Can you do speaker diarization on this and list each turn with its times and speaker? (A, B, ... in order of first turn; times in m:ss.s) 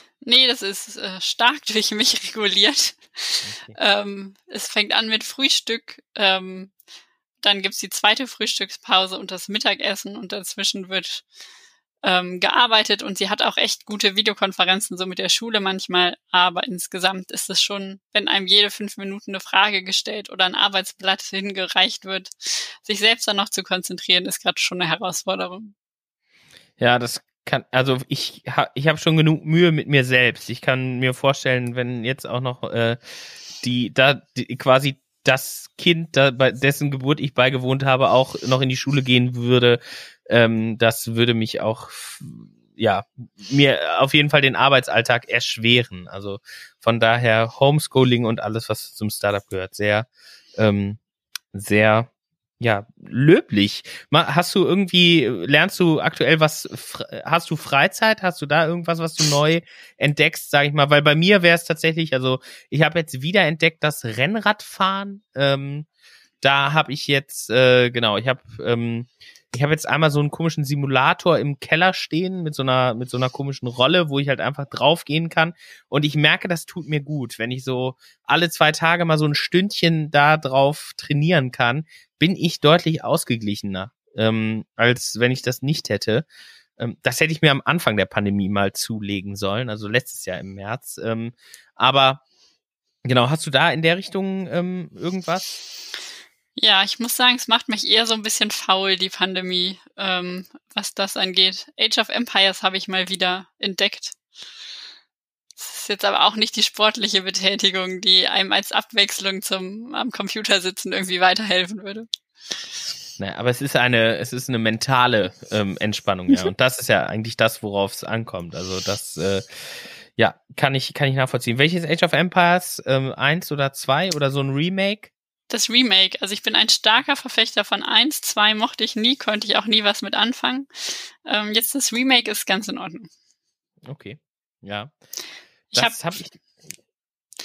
0:00.2-0:06.7 A
0:03.4-0:03.7 B
0:07.4-0:11.2 A
0:12.0-0:25.7 A
0:26.8-0:33.0 B
0:33.6-0:51.0 B
0:51.5-0:52.1 B
0:52.6-1:05.9 B
1:06.4-1:26.2 B
1:26.8-1:32.2 B
1:33.0-1:35.4 B
1:36.6-1:44.1 A
1:45.6-1:52.1 A
1:53.2-2:05.1 B
2:05.5-2:13.1 A
2:13.8-2:14.9 B
2:15.7-2:16.0 A
2:15.7-2:16.4 B